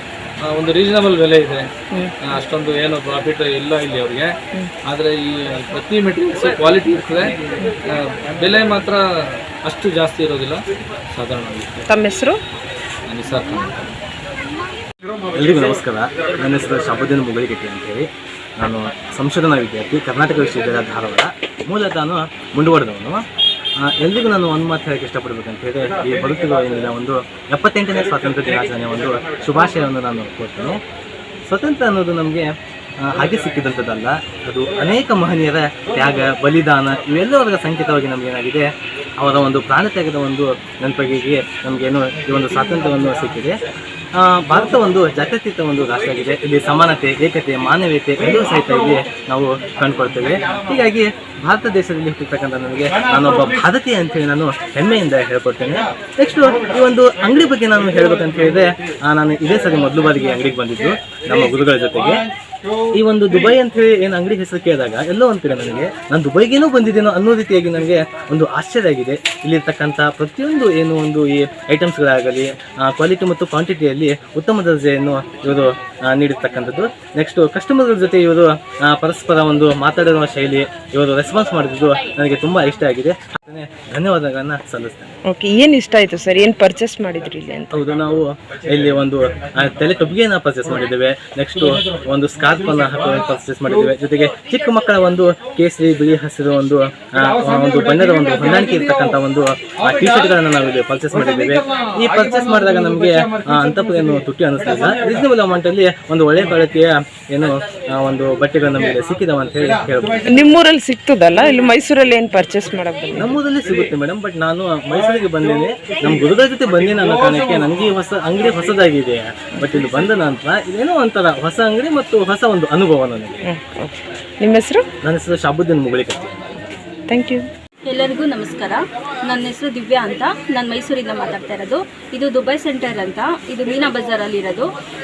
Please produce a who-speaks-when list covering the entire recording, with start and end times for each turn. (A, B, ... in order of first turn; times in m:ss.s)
0:00.4-0:01.7 A
0:02.3-0:04.4 A
0:04.9-0:11.8 A
0:11.9-0:12.4 B
0:13.1-0:13.9 A
0:15.3-0:18.1 C
0:18.6-0:23.2 C
0:23.9-0:30.8 C
0:31.5-0:38.7 C
0:39.2-0:43.6 C
0:44.2-1:02.2 C
1:02.9-1:25.1 C
1:25.3-1:27.7 B
1:27.7-1:50.3 C
1:50.3-1:53.4 B
1:53.2-2:03.4 C
2:03.5-2:04.9 B
2:05.0-2:06.6 C
2:07.1-2:07.5 B
2:07.9-2:14.7 D